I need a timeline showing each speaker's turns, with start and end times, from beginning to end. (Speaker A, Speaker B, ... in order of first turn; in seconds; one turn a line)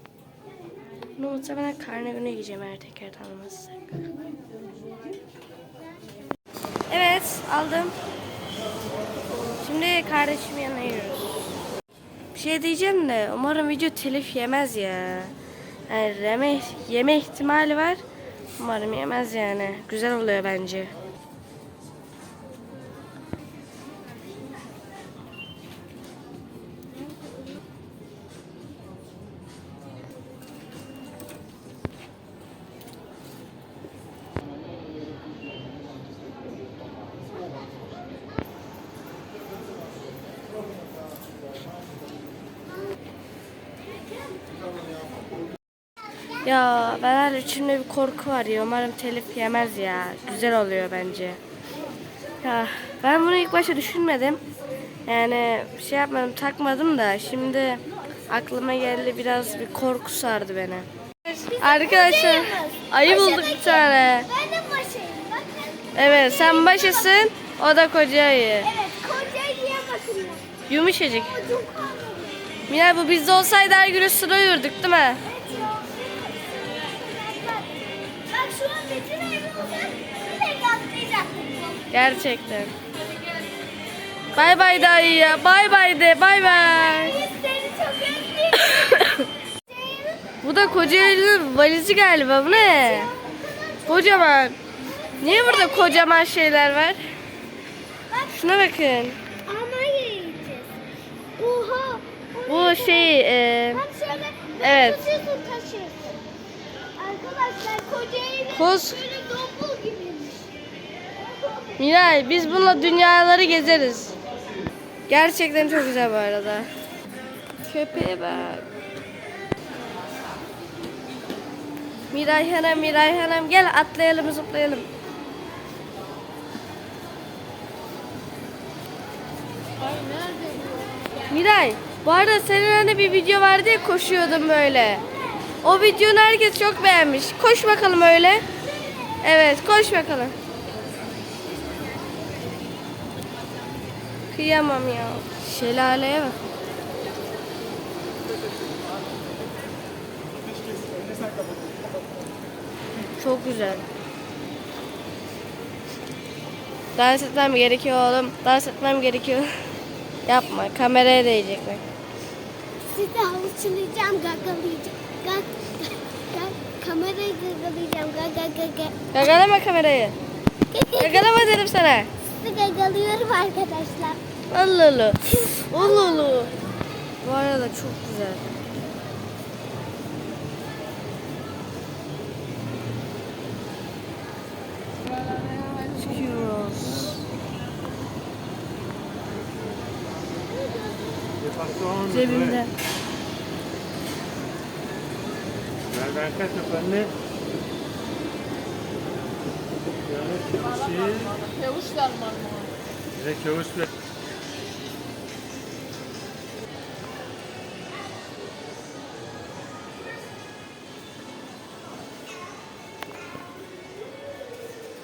Speaker A: 1.2-4.0
Speaker A: 6.9-7.9
Speaker A: 9.6-11.5
Speaker A: 12.3-15.3
Speaker A: 15.9-18.0
Speaker A: 18.6-20.9
Speaker A: 46.4-51.4
Speaker A: 52.4-54.4
Speaker A: 55.0-60.9
Speaker B: 61.3-67.3
Speaker A: 61.6-64.3
Speaker A: 65.9-68.7
Speaker B: 68.6-70.4
Speaker A: 70.7-71.3
Speaker B: 71.1-72.4
Speaker A: 72.7-75.2
Speaker B: 75.2-81.9
Speaker A: 81.9-82.7
Speaker A: 84.3-87.2
Speaker B: 84.3-85.5
Speaker B: 86.3-89.0
Speaker A: 88.6-89.2
Speaker B: 89.7-90.3
Speaker A: 90.4-93.1
Speaker B: 92.6-94.3
Speaker A: 93.8-94.6
Speaker B: 94.9-96.1
Speaker A: 95.2-97.0
Speaker A: 98.3-99.2
Speaker B: 99.5-100.8
Speaker B: 101.4-103.1
Speaker A: 102.5-103.8
Speaker B: 103.7-106.2
Speaker A: 104.6-105.1
Speaker B: 107.0-110.5
Speaker A: 108.5-109.0
Speaker B: 111.2-111.8
Speaker A: 111.8-114.1
Speaker A: 115.1-116.7
Speaker A: 117.7-118.7
Speaker A: 122.1-124.9
Speaker B: 129.9-130.6
Speaker A: 131.3-135.1
Speaker A: 135.6-138.4
Speaker A: 139.2-140.3
Speaker A: 144.3-146.3
Speaker A: 153.2-153.8
Speaker A: 156.9-159.5
Speaker A: 160.3-161.8
Speaker B: 162.8-169.3
Speaker A: 169.1-170.2
Speaker B: 170.7-171.5
Speaker A: 170.9-172.1
Speaker B: 172.4-174.2
Speaker A: 174.5-176.5
Speaker B: 175.3-176.3
Speaker A: 177.2-178.5
Speaker A: 185.8-187.2
Speaker C: 191.4-192.6
Speaker A: 192.1-192.7
Speaker C: 195.9-197.1
Speaker C: 200.0-201.6
Speaker C: 203.1-203.9